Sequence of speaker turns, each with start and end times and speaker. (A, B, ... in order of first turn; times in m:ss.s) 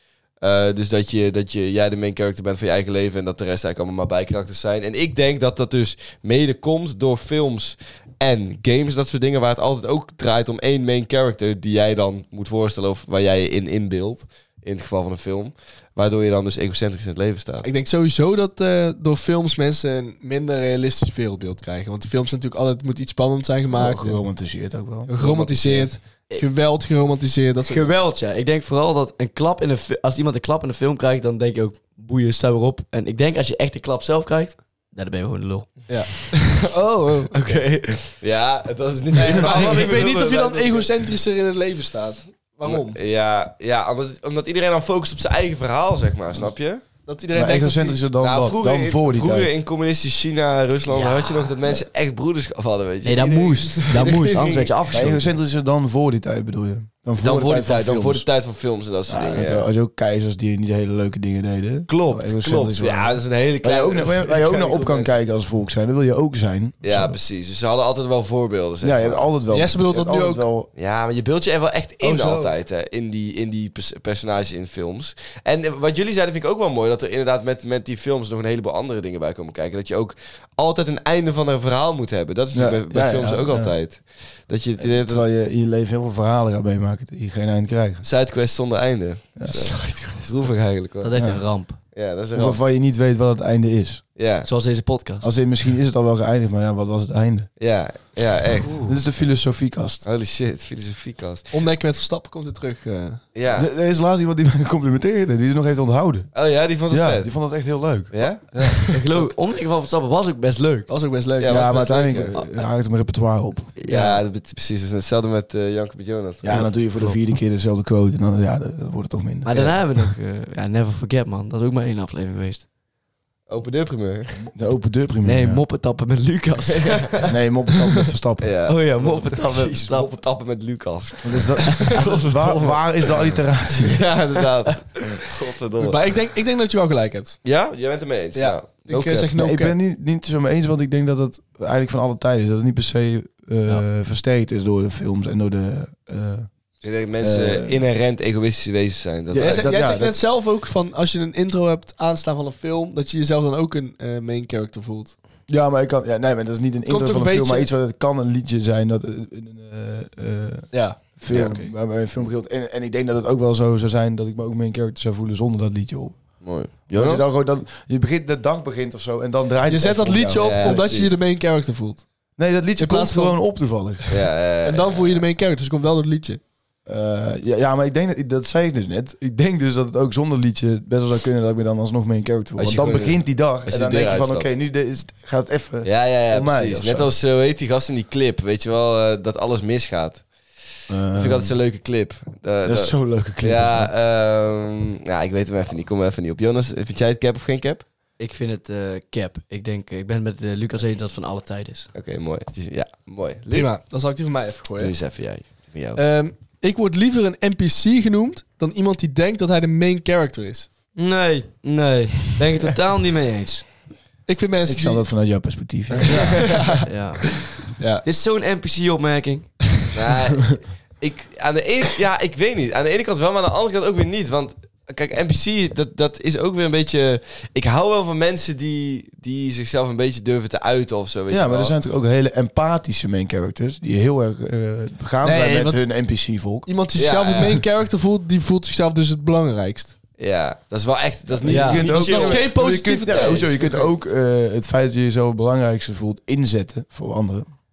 0:00.4-0:17.7 A
0:17.6-0:24.2 B
0:23.7-0:25.1 C
0:25.0-0:27.9 B
0:25.2-0:25.9 A
0:27.7-0:35.9 D
0:35.9-0:37.3 B
0:37.3-0:40.9 A
0:39.1-0:43.0 B
0:42.6-0:46.9 A
0:47.0-0:48.1 B
0:47.3-0:49.5 C
0:48.2-0:55.1 A
0:50.9-0:51.6 D
0:53.0-0:55.3 D
0:54.9-0:58.3 C
0:57.2-0:59.6 A
0:59.1-1:07.2 C
1:01.9-1:05.1 A
1:06.8-1:09.4 A
1:08.8-1:10.7 C
1:09.5-1:10.5 B
1:10.7-1:25.2 A
1:12.0-1:12.5 B
1:22.5-1:23.7 C
1:24.8-1:28.0 C
1:28.0-1:31.1 A
1:29.4-1:29.8 C
1:31.0-1:31.8 D
1:31.2-1:31.4 C
1:31.9-1:32.6 A
1:32.3-1:34.0 C
1:34.2-1:34.5 A
1:34.4-1:35.3 D
1:35.2-1:37.5 C
1:37.6-1:38.9 A
1:38.6-1:38.9 D
1:38.8-1:40.0 C
1:40.0-1:41.5 A
1:41.5-1:43.2 B
1:43.3-1:43.7 A
1:43.5-1:46.3 C
1:46.3-1:47.3 A
1:46.9-1:48.8 C
1:48.1-1:49.0 A
1:48.8-1:50.9 D
1:50.9-1:52.2 B
1:51.4-1:52.3 A
1:51.4-1:53.7 C
1:53.8-1:54.2 D
1:53.9-1:56.7 A
1:56.4-1:59.8 C
1:56.5-1:57.2 D
1:59.4-2:02.7 D
2:03.5-2:04.5 A
2:04.5-2:05.6 C
2:05.2-2:07.4 D
2:06.8-2:07.1 A
2:07.2-2:08.5 C
2:08.4-2:16.0 A
2:08.6-2:10.1 D
2:11.2-2:14.0 C
2:15.8-2:17.4 B
2:17.4-2:19.3 A
2:18.3-2:19.7 B
2:19.3-2:26.5 C
2:26.8-2:29.9 A
2:27.2-2:27.8 C
2:29.3-2:30.2 C
2:29.4-2:35.2 B
2:35.5-2:50.9 C
2:36.9-2:37.7 B
2:40.7-2:41.7 B
2:41.3-2:41.5 A
2:46.4-2:47.2 A
2:49.7-2:52.1 B
2:50.4-2:51.2 A
2:52.4-2:54.2 C
2:52.8-2:53.4 B
2:54.1-2:55.2 A
2:54.6-2:56.4 B
2:56.8-3:07.1 C
3:02.6-3:04.5 A
3:05.8-3:10.6 A
3:10.9-3:11.6 C
3:11.1-3:17.8 A
3:12.6-3:13.9 C
3:18.2-3:21.9 D
3:21.9-3:23.7 A
3:23.5-3:25.0 B
3:24.8-3:26.0 A
3:26.0-3:30.7 B
3:30.9-3:33.7 D
3:34.2-3:35.1 B
3:34.7-3:36.5 C
3:36.1-3:36.9 B
3:36.1-3:36.4 A
3:36.8-3:39.6 D
3:37.8-3:38.0 B
3:39.9-3:51.7 A
3:51.3-3:56.7 C
3:55.2-4:00.0 B
3:57.0-3:57.6 A
4:00.2-4:03.9 A
4:01.3-4:07.5 C
4:01.5-4:01.9 D
4:01.5-4:03.8 B